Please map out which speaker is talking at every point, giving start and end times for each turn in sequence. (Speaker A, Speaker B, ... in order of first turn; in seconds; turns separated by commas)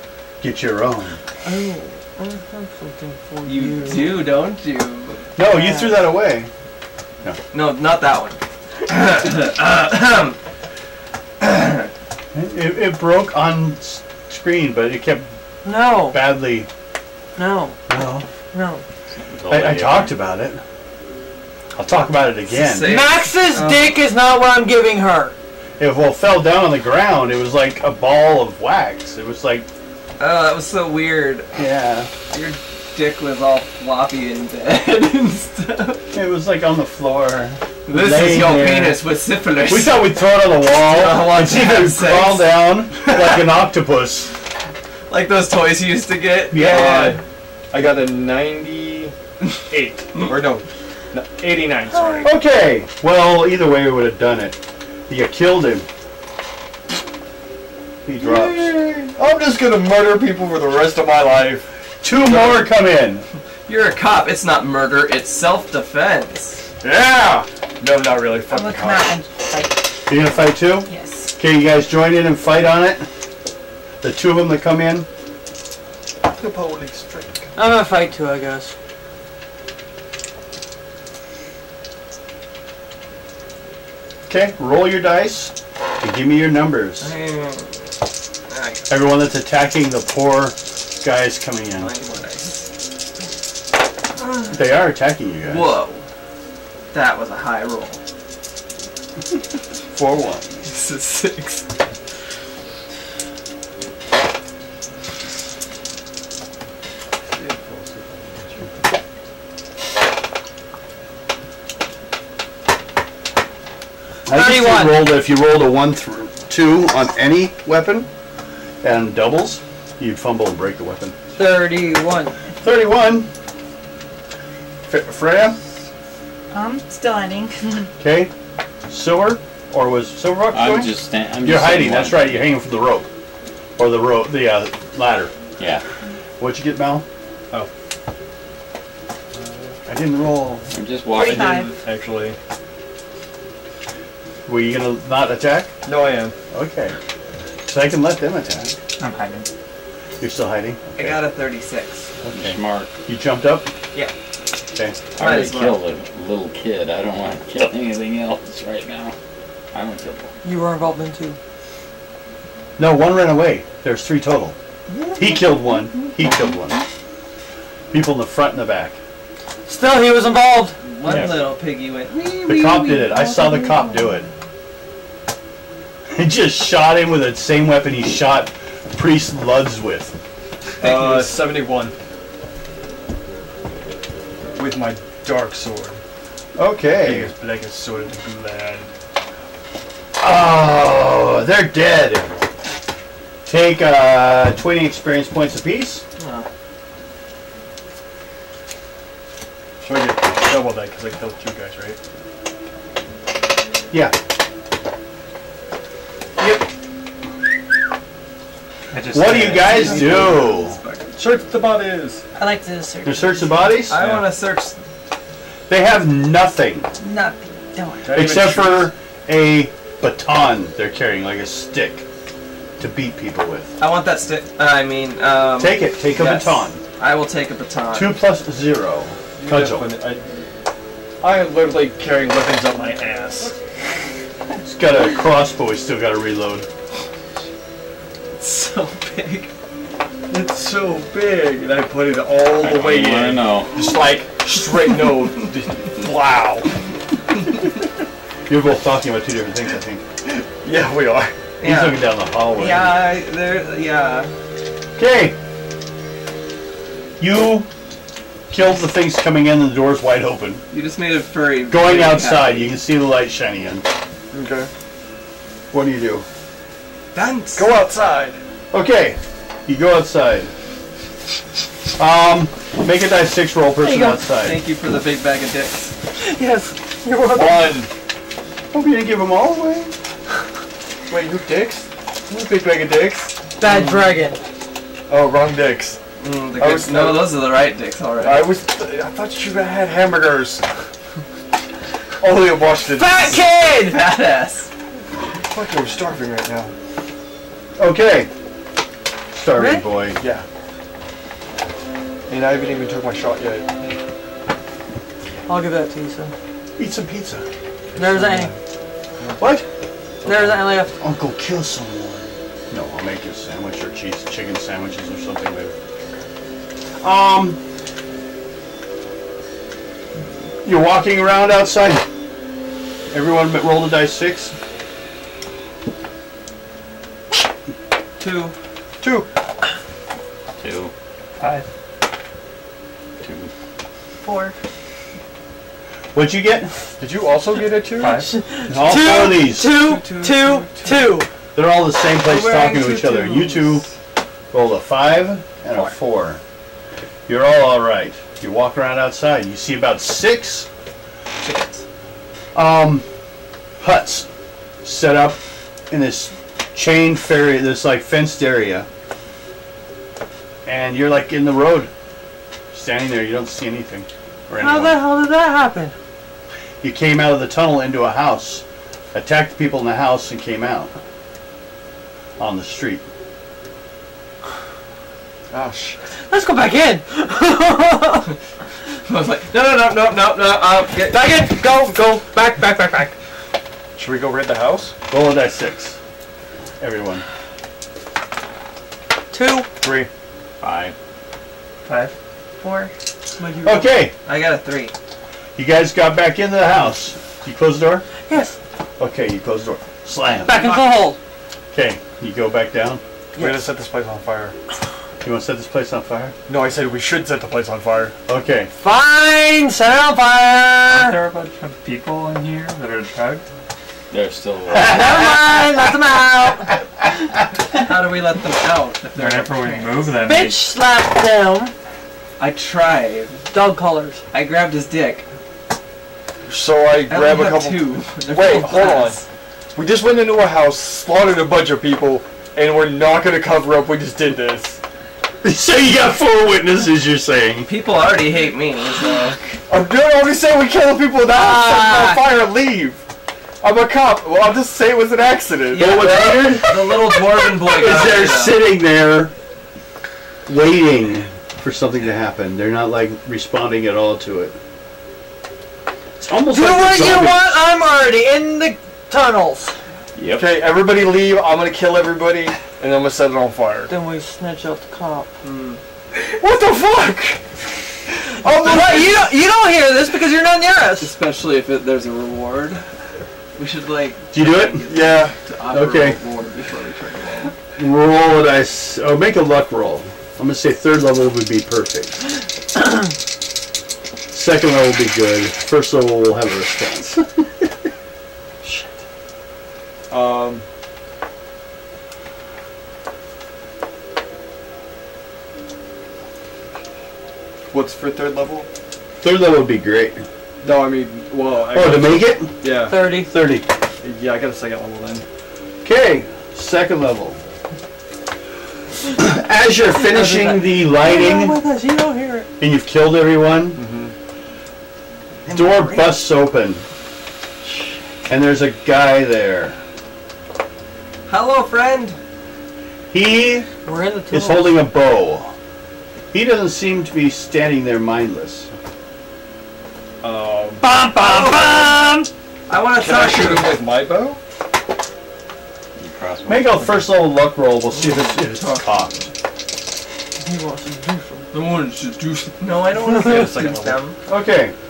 Speaker A: 0.4-1.2, Speaker B: 1.4-4.3, Speaker C: 3.5-5.2, Speaker A: 5.3-6.5, Speaker B: 5.4-6.0, Speaker C: 7.5-10.4, Speaker C: 11.4-11.9, Speaker A: 12.3-15.3, Speaker B: 15.6-16.2, Speaker A: 15.9-16.7, Speaker B: 17.4-17.8, Speaker A: 17.9-18.2, Speaker B: 18.5-18.8, Speaker D: 19.1-20.2, Speaker A: 19.5-20.6, Speaker A: 21.8-22.9, Speaker C: 22.4-23.9, Speaker B: 22.8-25.3, Speaker A: 25.8-29.7, Speaker C: 30.2-31.5, Speaker A: 31.6-32.1, Speaker C: 32.3-36.0, Speaker A: 36.1-39.0, Speaker C: 37.9-43.4, Speaker A: 39.6-44.3, Speaker C: 45.1-47.2, Speaker A: 46.5-47.2, Speaker E: 46.5-47.2, Speaker E: 47.7-49.1, Speaker E: 49.7-52.3, Speaker A: 52.2-55.9, Speaker A: 58.0-58.8, Speaker E: 58.2-62.7, Speaker A: 62.0-63.2, Speaker C: 63.7-66.6, Speaker E: 66.8-69.2, Speaker A: 66.9-67.5, Speaker F: 68.5-71.3, Speaker A: 70.1-73.1, Speaker A: 74.0-75.1, Speaker E: 76.2-77.5, Speaker B: 77.5-78.7, Speaker A: 84.3-87.1, Speaker C: 87.0-87.9, Speaker C: 88.5-88.9, Speaker A: 88.9-91.9, Speaker C: 91.8-92.7, Speaker C: 94.2-94.7, Speaker A: 94.5-95.8, Speaker C: 95.4-96.0, Speaker C: 96.9-98.0, Speaker A: 99.9-100.6, Speaker C: 100.7-101.6, Speaker E: 107.3-108.7, Speaker A: 114.2-118.1, Speaker B: 114.3-115.0, Speaker A: 118.8-121.2, Speaker B: 121.4-122.3, Speaker A: 122.6-123.3, Speaker A: 124.9-125.6, Speaker F: 126.5-127.9, Speaker A: 128.0-128.3, Speaker A: 128.9-133.1, Speaker D: 130.5-132.5, Speaker A: 133.8-135.3, Speaker D: 135.6-135.8, Speaker A: 136.4-137.1, Speaker E: 139.3-139.8, Speaker A: 139.8-140.7, Speaker D: 140.7-141.7, Speaker F: 141.1-141.7, Speaker E: 141.2-142.4, Speaker A: 144.4-145.7, Speaker E: 145.8-146.3, Speaker A: 146.5-147.0, Speaker A: 147.7-148.7, Speaker G: 149.0-149.5, Speaker A: 150.2-151.2, Speaker C: 150.9-152.1, Speaker A: 152.2-153.7, Speaker D: 152.3-152.9, Speaker D: 155.2-159.1, Speaker C: 155.2-155.8, Speaker D: 159.7-160.3, Speaker B: 160.4-161.4, Speaker A: 162.8-164.5, Speaker F: 164.9-166.4, Speaker A: 165.2-166.8, Speaker A: 167.9-169.0, Speaker B: 169.7-170.8, Speaker C: 170.8-172.9, Speaker A: 171.1-171.4, Speaker F: 172.2-174.2, Speaker A: 172.4-174.3, Speaker A: 176.1-180.1, Speaker C: 180.8-181.3, Speaker E: 180.8-181.9, Speaker E: 184.5-186.0, Speaker A: 186.5-187.3, Speaker E: 187.0-188.9, Speaker A: 190.2-192.3, Speaker A: 193.4-196.0, Speaker C: 196.2-196.5, Speaker E: 199.8-202.0, Speaker A: 206.4-206.7, Speaker G: 208.9-210.2, Speaker A: 209.1-210.8, Speaker C: 209.2-211.1, Speaker E: 209.7-210.5, Speaker E: 211.1-212.2, Speaker F: 212.4-213.8, Speaker A: 213.0-214.0, Speaker C: 213.9-214.7, Speaker E: 213.9-214.3, Speaker A: 215.7-216.9, Speaker F: 217.0-218.3, Speaker E: 218.0-218.9, Speaker A: 218.1-222.0, Speaker A: 222.8-223.7, Speaker C: 223.8-228.2, Speaker A: 225.6-226.8, Speaker A: 227.9-229.9, Speaker E: 229.4-230.3, Speaker E: 231.2-233.5, Speaker A: 234.6-236.7, Speaker C: 238.4-239.5, Speaker E: 240.3-246.7, Speaker D: 242.6-243.9, Speaker A: 248.5-250.0, Speaker E: 250.2-251.3, Speaker C: 251.6-254.3, Speaker A: 251.6-253.0, Speaker A: 255.0-255.3, Speaker A: 257.2-257.7, Speaker A: 258.5-260.6, Speaker C: 260.7-262.8, Speaker A: 261.7-263.9, Speaker E: 264.3-264.7, Speaker A: 265.7-266.2, Speaker C: 267.1-267.7, Speaker E: 267.5-268.4, Speaker A: 268.7-270.5, Speaker A: 272.0-274.6, Speaker C: 274.0-275.9, Speaker B: 276.2-277.8, Speaker E: 277.3-277.9, Speaker A: 278.7-279.9, Speaker E: 281.1-284.1, Speaker B: 283.6-284.4, Speaker E: 285.1-286.0, Speaker C: 286.2-288.5, Speaker E: 286.6-287.4, Speaker E: 288.2-290.6, Speaker E: 292.2-293.6, Speaker B: 292.9-294.0, Speaker C: 293.7-294.7, Speaker E: 295.4-296.7, Speaker A: 297.8-298.3, Speaker A: 299.3-300.2, Speaker B: 299.5-299.8, Speaker E: 300.2-300.4, Speaker E: 302.3-303.8, Speaker B: 305.5-306.3, Speaker A: 306.8-307.4, Speaker E: 307.9-308.6, Speaker B: 307.9-308.5, Speaker E: 309.2-309.6, Speaker A: 309.4-309.6, Speaker E: 310.2-310.8, Speaker B: 310.2-310.9, Speaker A: 311.0-315.7, Speaker A: 317.0-317.6, Speaker A: 320.6-322.0, Speaker A: 323.1-324.5, Speaker C: 328.2-328.5, Speaker E: 329.0-329.3, Speaker D: 330.6-330.9, Speaker G: 331.4-331.6, Speaker D: 333.2-333.5, Speaker F: 334.2-334.5, Speaker A: 336.1-336.8, Speaker E: 337.0-338.2, Speaker G: 338.0-338.4, Speaker B: 338.2-341.3, Speaker A: 338.7-339.8, Speaker C: 339.6-341.1, Speaker A: 341.5-343.9, Speaker C: 342.2-343.9, Speaker A: 344.5-346.4, Speaker A: 347.3-350.7, Speaker C: 351.4-351.8, Speaker A: 352.5-353.0, Speaker A: 353.8-354.3, Speaker A: 354.8-355.4, Speaker A: 355.9-358.9, Speaker A: 360.6-361.9, Speaker A: 362.7-365.0, Speaker B: 364.6-365.9, Speaker A: 366.8-370.9, Speaker A: 372.4-373.0, Speaker E: 375.5-376.0, Speaker B: 376.1-378.3, Speaker C: 379.1-381.2, Speaker B: 381.1-383.1, Speaker E: 383.9-384.9, Speaker A: 385.1-386.0, Speaker A: 386.8-387.2, Speaker B: 389.3-389.7, Speaker E: 389.8-390.1, Speaker D: 390.6-390.9, Speaker F: 392.6-392.9, Speaker B: 393.4-393.9, Speaker A: 393.6-394.1, Speaker C: 394.2-394.9, Speaker A: 395.6-398.1, Speaker B: 398.3-398.6, Speaker A: 399.0-400.8, Speaker B: 400.4-401.2, Speaker A: 401.7-403.0, Speaker B: 403.4-403.7, Speaker E: 403.4-404.6, Speaker A: 405.2-406.3, Speaker E: 406.5-408.1, Speaker A: 408.3-408.7, Speaker B: 408.8-411.2, Speaker G: 410.9-413.4, Speaker D: 414.1-415.5, Speaker B: 414.9-416.8, Speaker C: 417.7-420.1, Speaker G: 419.1-420.7, Speaker B: 420.2-421.7, Speaker C: 422.4-423.4, Speaker B: 423.5-424.2, Speaker C: 424.3-425.2, Speaker E: 426.5-429.2, Speaker C: 427.1-429.2, Speaker E: 429.7-434.8, Speaker A: 435.4-437.7, Speaker C: 437.6-439.4, Speaker E: 439.7-443.0, Speaker B: 441.3-442.2, Speaker E: 443.6-446.2, Speaker C: 445.7-448.6, Speaker A: 445.8-449.3, Speaker A: 450.5-454.6, Speaker A: 456.2-457.5, Speaker B: 456.5-459.7, Speaker D: 460.1-460.5, Speaker E: 460.4-463.9, Speaker B: 463.9-465.3, Speaker C: 465.4-465.8, Speaker E: 466.1-467.4, Speaker E: 468.1-469.2, Speaker B: 468.4-471.1, Speaker C: 471.0-472.8, Speaker C: 473.6-477.6, Speaker A: 474.3-474.8, Speaker E: 474.8-475.4, Speaker A: 475.7-476.2, Speaker A: 477.8-482.2, Speaker A: 484.3-487.7, Speaker E: 490.1-490.6, Speaker E: 497.7-498.7, Speaker A: 499.2-500.2, Speaker E: 500.6-503.0, Speaker A: 501.7-502.5, Speaker B: 502.9-503.3, Speaker A: 503.1-503.7, Speaker E: 504.0-505.2, Speaker A: 505.8-507.4, Speaker A: 509.1-511.6, Speaker B: 509.9-512.5, Speaker A: 512.6-513.8, Speaker E: 513.7-514.1, Speaker F: 515.4-516.2, Speaker A: 515.5-516.8, Speaker A: 518.3-519.8, Speaker C: 521.3-522.2, Speaker A: 523.1-523.7, Speaker B: 523.9-524.8, Speaker A: 524.3-525.5, Speaker A: 526.3-528.7, Speaker E: 530.2-530.8, Speaker B: 530.8-532.3, Speaker C: 531.2-532.1, Speaker C: 532.7-533.8, Speaker E: 532.9-534.4, Speaker D: 536.0-537.1, Speaker A: 536.5-539.3, Speaker C: 537.9-539.3, Speaker B: 540.4-541.5, Speaker C: 541.5-544.2, Speaker E: 543.1-544.0, Speaker A: 544.3-544.7